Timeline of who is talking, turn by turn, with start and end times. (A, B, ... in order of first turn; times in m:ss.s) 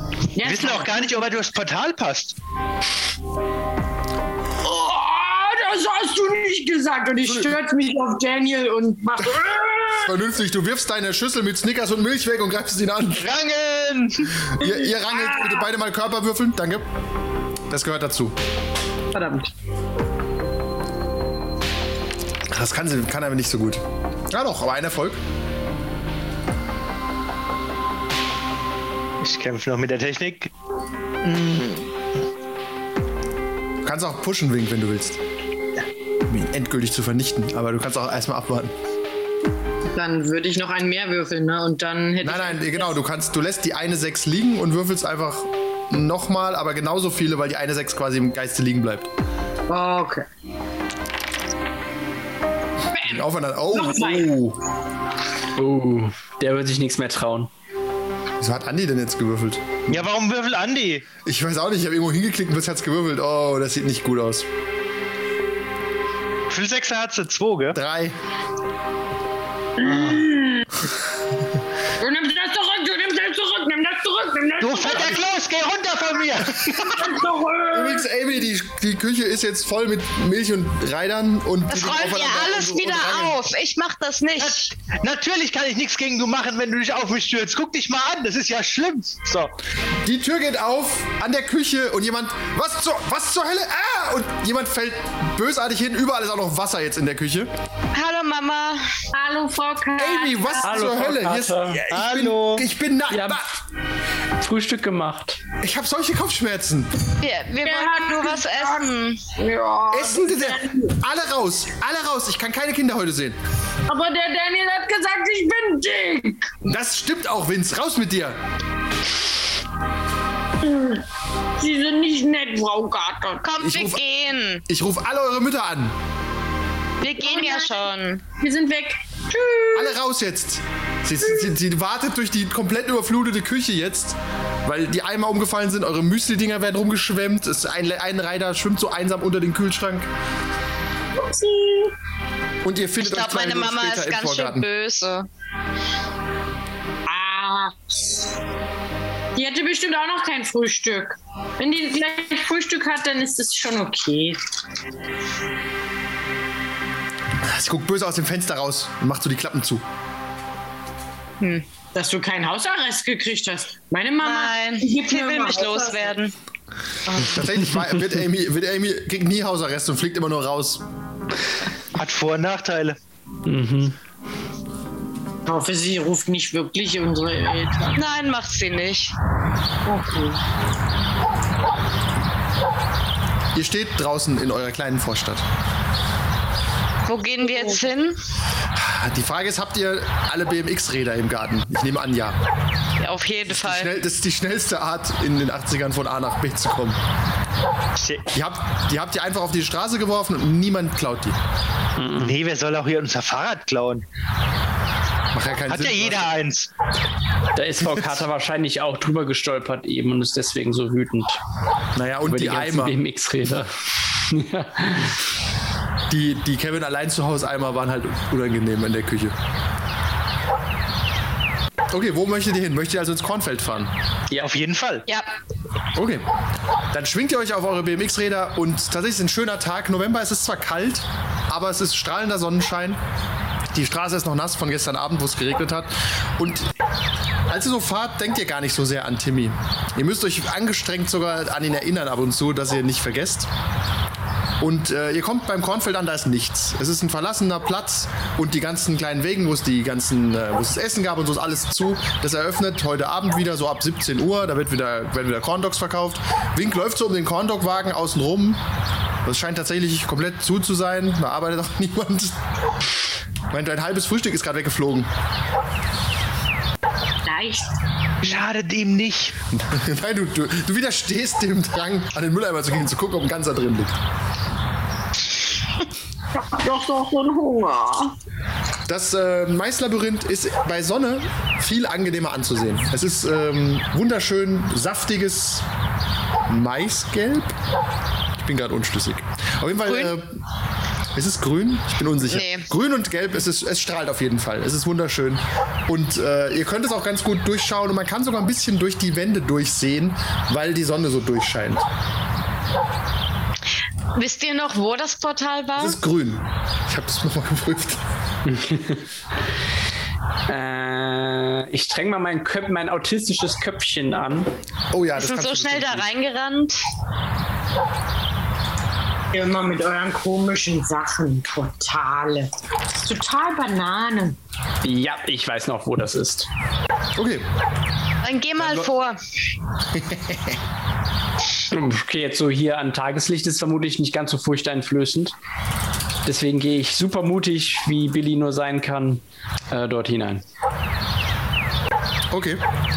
0:00.3-0:01.3 A
0:00.4-0:02.4 B
0:04.6-0:10.1 A
0:07.3-0:07.5 C
0:09.9-0:13.3 C
0:13.2-0:14.3 B
0:14.4-0:16.9 C
0:14.6-0:15.7 A
0:17.7-0:18.4 C
0:19.1-0:19.5 A
0:22.5-0:25.2 C
0:29.2-0:30.5 B
0:31.2-0:31.9 B
0:33.8-0:35.2 C
0:36.3-0:38.7 C
0:39.9-0:43.0 A
0:42.2-0:49.1 C
0:49.7-0:50.3 A
0:52.9-0:54.3 A
0:53.0-0:54.6 C
0:55.5-0:57.5 D
0:58.4-1:00.0 C
0:59.9-1:01.1 B
1:01.2-1:04.5 C
1:06.5-1:07.8 B
1:07.7-1:08.2 C
1:09.8-1:10.7 A
1:09.8-1:10.2 B
1:12.0-1:15.2 A
1:14.6-1:16.7 B
1:16.6-1:17.0 C
1:16.8-1:18.1 A
1:17.7-1:23.4 C
1:21.7-1:24.7 E
1:24.4-1:29.5 B
1:30.0-1:37.5 C
1:37.9-1:38.9 E
1:39.1-1:40.8 A
1:40.0-1:43.5 C
1:40.6-1:41.8 D
1:41.9-1:42.6 B
1:43.1-1:43.5 D
1:44.4-1:45.4 D
1:45.6-1:46.9 C
1:47.2-1:49.2 E
1:47.6-1:51.0 A
1:49.9-1:53.4 C
1:53.9-1:56.6 A
1:56.7-1:58.4 C
2:00.6-2:01.0 A
2:01.6-2:03.4 A
2:03.4-2:04.6 E
2:03.6-2:04.0 C
2:04.7-2:06.0 C
2:07.0-2:08.2 E
2:07.2-2:07.9 A
2:08.4-2:10.0 A
2:09.7-2:20.1 C
2:21.2-2:22.0 A
2:22.6-2:24.6 C
2:23.0-2:25.3 E
2:27.0-2:28.2 A
2:29.3-2:34.4 A
2:37.4-2:39.8 C
2:41.4-2:41.6 E
2:41.9-2:46.2 A
2:44.2-2:46.3 E
2:47.1-2:47.4 A
2:47.1-2:50.8 C
2:52.0-2:53.0 B
2:53.4-2:54.0 D
2:55.4-2:58.0 A
2:57.9-2:59.2 E
2:59.8-3:00.4 A
3:03.5-3:05.4 C
3:07.1-3:08.2 E
3:07.4-3:07.8 A
3:08.7-3:12.4 C
3:13.0-3:13.9 E
3:13.5-3:17.0 C
3:18.0-3:18.3 B
3:18.3-3:21.4 C
3:22.0-3:22.4 D
3:22.2-3:24.0 B
3:25.3-3:26.3 C
3:25.7-3:26.7 B
3:27.5-3:31.4 D
3:31.9-3:33.0 C
3:32.3-3:35.2 D
3:36.1-3:39.4 C
3:41.9-3:43.9 C
3:44.4-3:45.0 B
3:45.9-3:46.2 C
3:46.9-3:53.0 C
3:53.7-3:56.7 C
3:57.5-4:03.5 C
4:04.6-4:18.6 C
4:19.2-4:22.4 C
4:23.5-4:25.1 C
4:27.2-4:27.8 A
4:28.2-4:29.4 B
4:29.5-4:34.0 C
4:36.3-4:38.2 A
4:38.9-4:45.6 C
4:46.5-4:47.6 C
4:48.4-4:50.4 C
4:49.9-4:50.1 E
4:51.1-5:01.8 C
4:52.3-4:52.7 E
5:04.1-5:06.0 E
5:05.8-5:08.0 C
5:08.4-5:09.0 D
5:10.5-5:14.5 D
5:14.9-5:16.1 C
5:15.1-5:16.8 E
5:19.3-5:24.4 A
5:24.8-5:26.5 D
5:27.2-5:27.5 C
5:28.2-5:29.2 E
5:28.6-5:28.9 C
5:29.9-5:30.6 C
5:31.7-5:35.4 D
5:36.2-5:40.4 D
5:42.3-5:42.6 C